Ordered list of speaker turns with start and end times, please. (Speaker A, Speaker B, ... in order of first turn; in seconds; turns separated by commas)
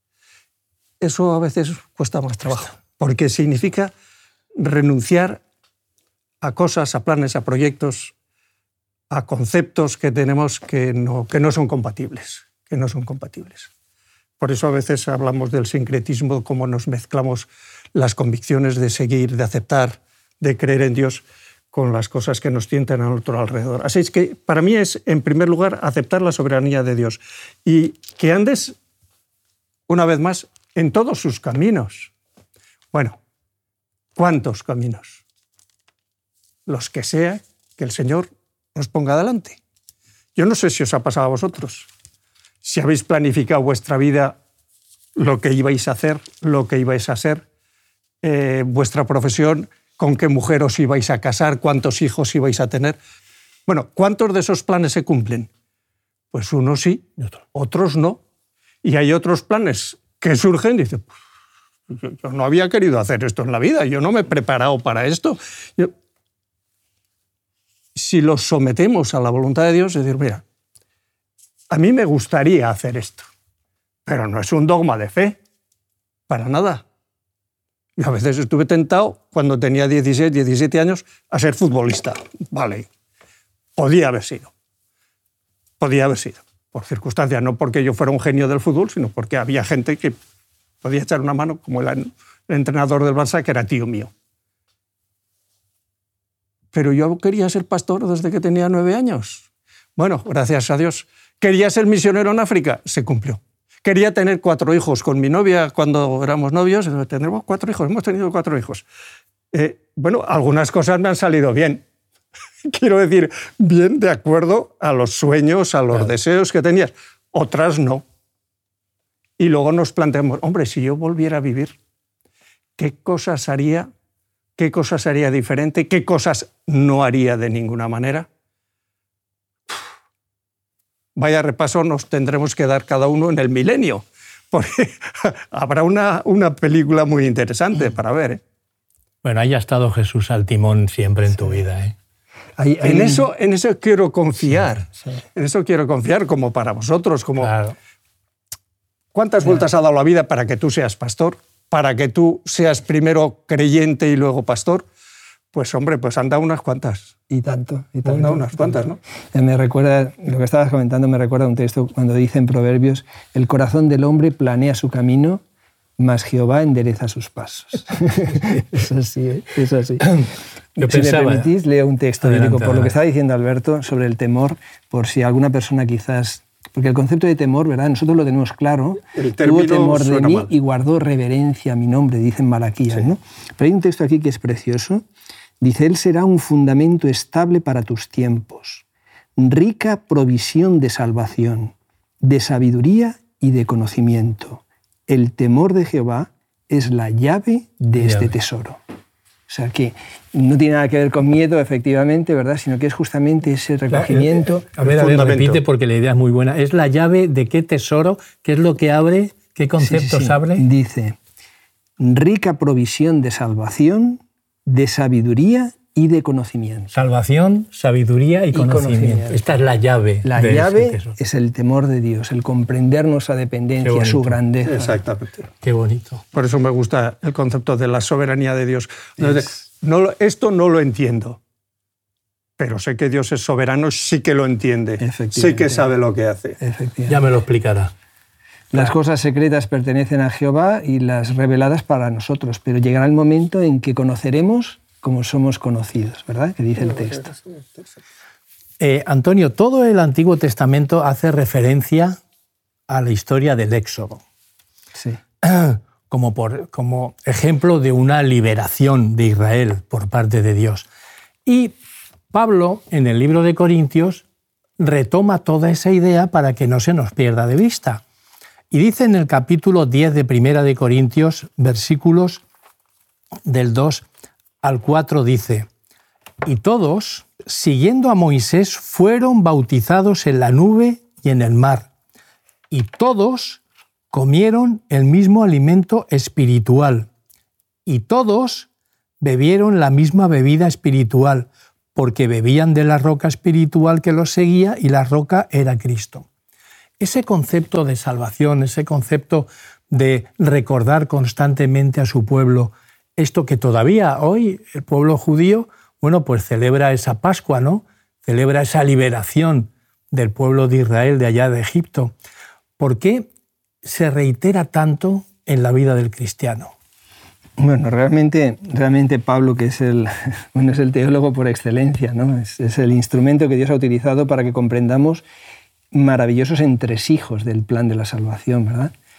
Speaker A: 1.0-3.9, Speaker A: 4.5-5.4, Speaker A: 6.4-8.1, Speaker A: 9.1-13.7, Speaker A: 14.4-28.8, Speaker A: 29.9-32.1, Speaker A: 32.9-33.2, Speaker A: 34.1-35.2, Speaker A: 36.6-39.6, Speaker A: 40.3-41.9, Speaker A: 42.6-44.4, Speaker A: 45.1-47.4, Speaker A: 48.2-53.0, Speaker A: 53.7-55.5, Speaker A: 56.3-58.2, Speaker A: 58.8-61.1, Speaker A: 61.9-65.9, Speaker A: 67.9-70.4, Speaker A: 71.7-73.2, Speaker A: 74.0-75.4, Speaker A: 76.3-76.8, Speaker A: 78.0-82.9, Speaker A: 83.8-84.5, Speaker A: 85.8-90.2, Speaker A: 90.8-94.1, Speaker A: 96.7-108.8, Speaker A: 109.5-111.8, Speaker A: 112.6-118.0, Speaker A: 119.4-121.7, Speaker A: 122.8-123.9, Speaker A: 124.6-128.3, Speaker A: 131.1-138.4, Speaker B: 139.2-141.9, Speaker C: 142.6-143.2, Speaker A: 142.8-147.5, Speaker B: 147.4-147.8, Speaker A: 149.1-154.8, Speaker A: 155.5-157.1, Speaker C: 157.3-165.4, Speaker A: 158.1-159.0, Speaker C: 166.0-185.0, Speaker B: 170.8-171.5, Speaker B: 172.2-172.9, Speaker A: 179.1-180.5, Speaker C: 185.6-188.8, Speaker C: 189.3-198.8, Speaker B: 198.0-198.3, Speaker C: 199.5-204.7, Speaker B: 203.9-210.7, Speaker A: 204.8-205.6, Speaker C: 209.8-211.2, Speaker C: 212.0-216.9, Speaker B: 216.9-221.2, Speaker C: 218.5-219.4, Speaker C: 220.2-225.0, Speaker B: 223.8-224.3, Speaker A: 224.7-225.5, Speaker B: 225.6-226.2, Speaker A: 226.3-231.4, Speaker C: 229.2-229.4, Speaker A: 232.6-236.6, Speaker C: 235.0-235.9, Speaker C: 236.6-237.2, Speaker B: 237.1-237.9, Speaker C: 238.7-247.3, Speaker B: 248.8-252.2, Speaker B: 252.9-254.2, Speaker B: 255.4-260.9, Speaker B: 261.4-261.8, Speaker B: 262.3-264.2, Speaker B: 264.8-268.0, Speaker B: 268.7-272.4, Speaker B: 273.4-274.1, Speaker B: 274.6-275.7, Speaker B: 276.4-281.9, Speaker B: 282.7-287.1, Speaker B: 287.9-288.7, Speaker B: 289.2-296.2, Speaker B: 297.0-312.1, Speaker B: 312.8-313.3, Speaker B: 313.8-316.7, Speaker C: 317.6-325.2, Speaker C: 325.9-328.9